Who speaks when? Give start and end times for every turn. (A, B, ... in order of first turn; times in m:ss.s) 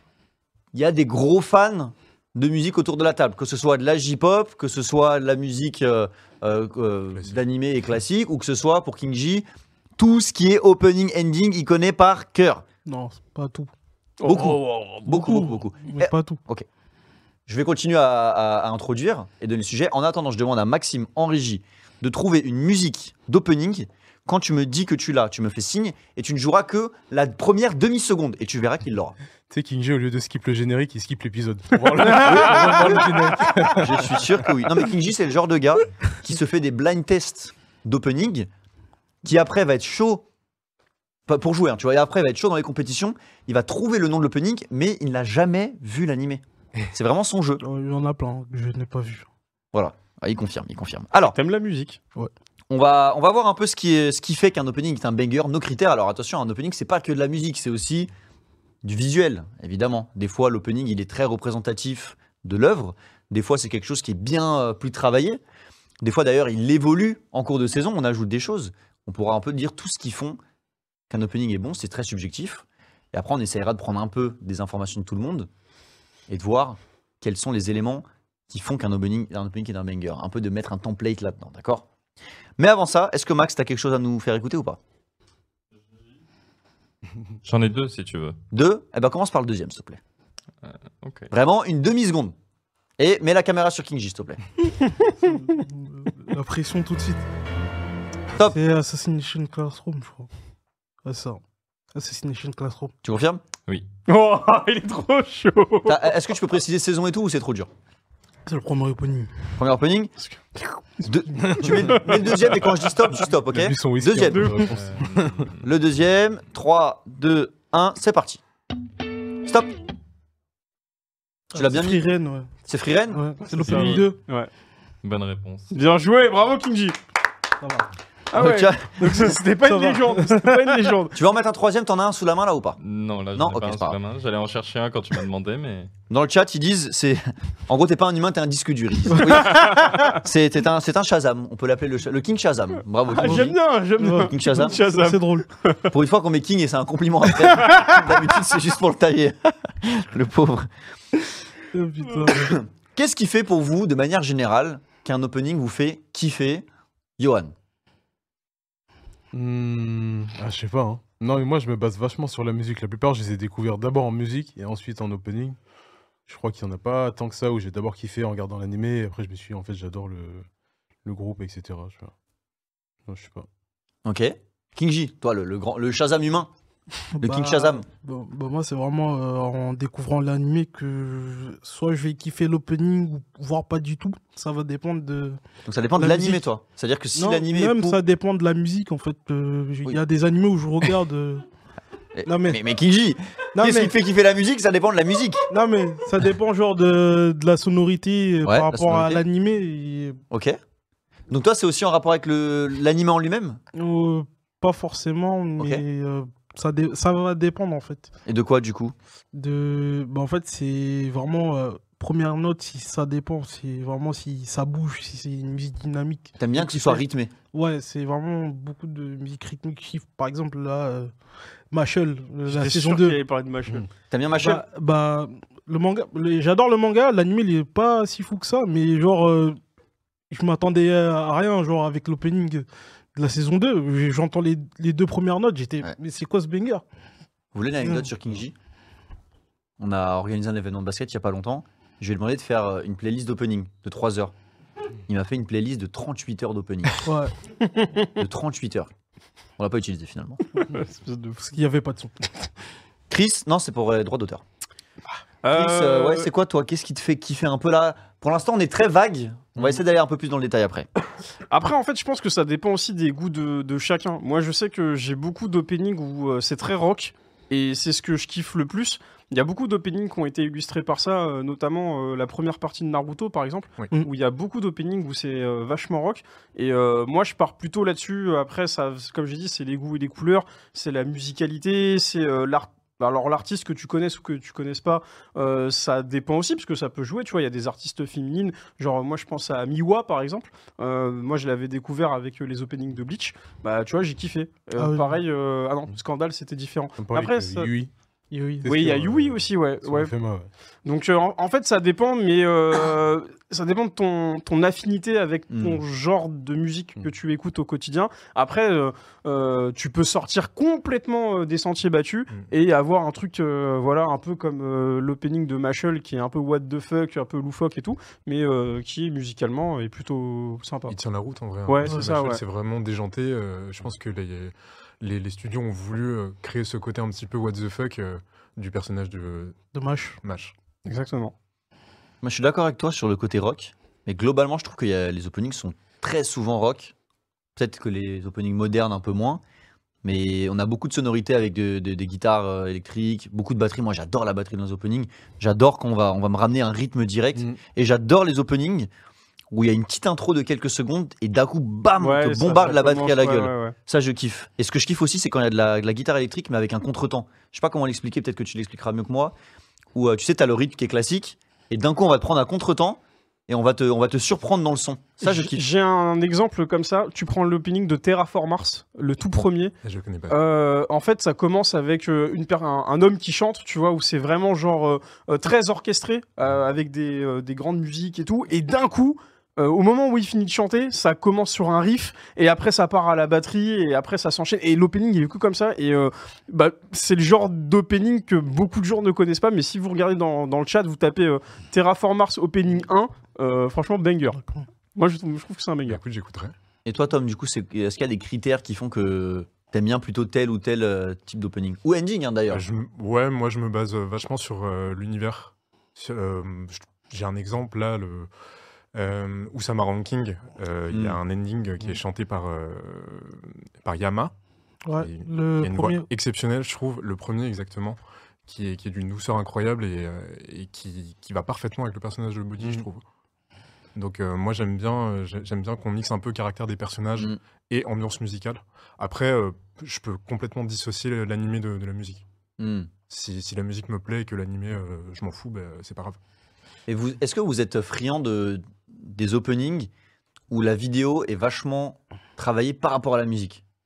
0:00.7-0:09.4 A
0:07.1-0:07.4 B
0:10.0-0:12.6 A
0:12.8-0:13.7 C
0:14.2-0:15.3 D
0:14.2-0:16.6 A
0:14.3-0:14.6 C
0:15.1-0:16.4 C
0:17.5-0:29.2 A
0:29.5-0:34.4 E
0:32.1-0:32.6 C
0:33.8-0:38.5 A
0:39.2-0:40.2 A
0:41.3-0:47.6 A
0:47.6-0:49.3 C
0:49.7-0:51.4 A
0:51.3-0:52.0 D
0:52.7-0:58.1 A
0:58.8-1:05.4 A
1:06.0-1:10.4 A
1:11.1-1:15.5 A
1:16.3-1:21.9 A
1:22.6-1:24.8 A
1:27.4-1:28.4 F
1:28.5-1:30.0 A
1:30.6-1:31.3 F
1:31.3-1:32.3 A
1:33.0-1:34.4 A
1:34.8-1:35.1 D
1:35.2-1:37.2 C
1:38.4-1:40.3 C
1:41.0-1:41.4 C
1:41.9-1:42.9 C
1:43.0-1:43.4 A
1:44.1-1:46.1 D
1:45.8-1:47.7 A
1:48.4-1:49.5 C
1:49.6-1:50.1 A
1:50.2-1:51.0 D
1:51.0-1:54.6 A
1:51.6-1:52.5 D
1:53.4-1:55.5 E
1:54.3-1:54.6 D
1:54.8-1:55.6 F
1:55.6-1:58.4 A
1:59.4-1:59.7 A
2:01.5-2:02.0 A
2:01.5-2:04.2 C
2:02.6-2:04.0 A
2:03.6-2:04.5 D
2:05.0-2:05.7 F
2:05.7-2:07.0 D
2:07.6-2:07.8 C
2:08.3-2:11.2 D
2:08.3-2:09.3 A
2:09.6-2:10.7 C
2:11.1-2:12.8 A
2:12.8-2:15.9 F
2:13.3-2:14.0 A
2:16.1-2:23.6 A
2:23.1-2:25.9 D
2:24.0-2:25.4 C
2:24.3-2:24.8 A
2:25.9-2:30.7 A
2:31.7-2:32.6 C
2:32.3-2:36.6 A
2:37.2-2:37.5 A
2:39.3-2:45.6 E
2:46.2-2:50.4 E
2:51.0-2:52.1 E
2:53.0-2:53.5 E
2:54.0-2:56.5 A
2:57.1-3:05.4 C
2:57.2-2:57.8 A
3:05.6-3:08.0 A
3:06.0-3:06.4 C
3:07.1-3:11.4 C
3:12.1-3:15.4 A
3:12.2-3:12.6 C
3:13.5-3:13.9 C
3:15.5-3:20.2 C
3:18.4-3:19.2 A
3:20.3-3:20.6 A
3:21.3-3:23.6 A
3:23.7-3:28.1 C
3:28.2-3:28.9 A
3:29.3-3:41.2 C
3:36.4-3:37.3 A
3:41.7-3:43.2 C
3:42.4-3:43.9 D
3:44.1-3:44.6 A
3:44.3-3:49.6 C
3:50.3-3:56.8 C
3:57.5-3:58.5 A
3:57.8-3:58.1 C
3:59.8-4:04.3 A
4:05.1-4:07.0 A
4:07.0-4:07.3 C
4:07.6-4:08.2 D
4:08.2-4:08.9 A
4:09.6-4:10.4 A
4:10.5-4:11.5 D
4:11.4-4:12.5 C
4:13.1-4:14.4 A
4:15.4-4:16.3 D
4:15.5-4:20.9 A
4:21.5-4:57.7 D
4:54.8-4:55.2 C
4:57.0-4:57.9 E
4:58.3-4:58.6 C
4:58.6-5:00.5 E
4:58.6-5:00.1 D
5:00.8-5:21.0 D
5:05.5-5:05.8 A
5:20.9-5:29.6 B
5:21.7-5:22.4 D
5:29.7-5:30.2 C
5:30.2-5:30.5 B
5:30.8-5:31.3 D
5:32.2-5:36.9 A
5:37.6-5:39.4 A
5:40.0-5:48.9 A
5:49.5-5:59.3 A
5:52.0-5:53.7 D
5:59.9-6:05.6 A
6:05.2-6:09.7 D
6:09.8-6:10.4 B
6:10.3-6:34.4 D
6:34.9-6:36.0 D
6:35.9-6:36.5 B
6:36.8-6:42.6 A
6:42.5-6:48.3 B
6:48.9-6:54.3 B
6:50.9-6:51.2 A
6:54.8-6:56.1 C
6:55.0-7:03.0 B
7:03.9-7:12.2 B
7:12.6-7:12.9 A
7:13.1-7:16.2 B
7:16.9-7:19.9 A
7:20.5-7:23.6 A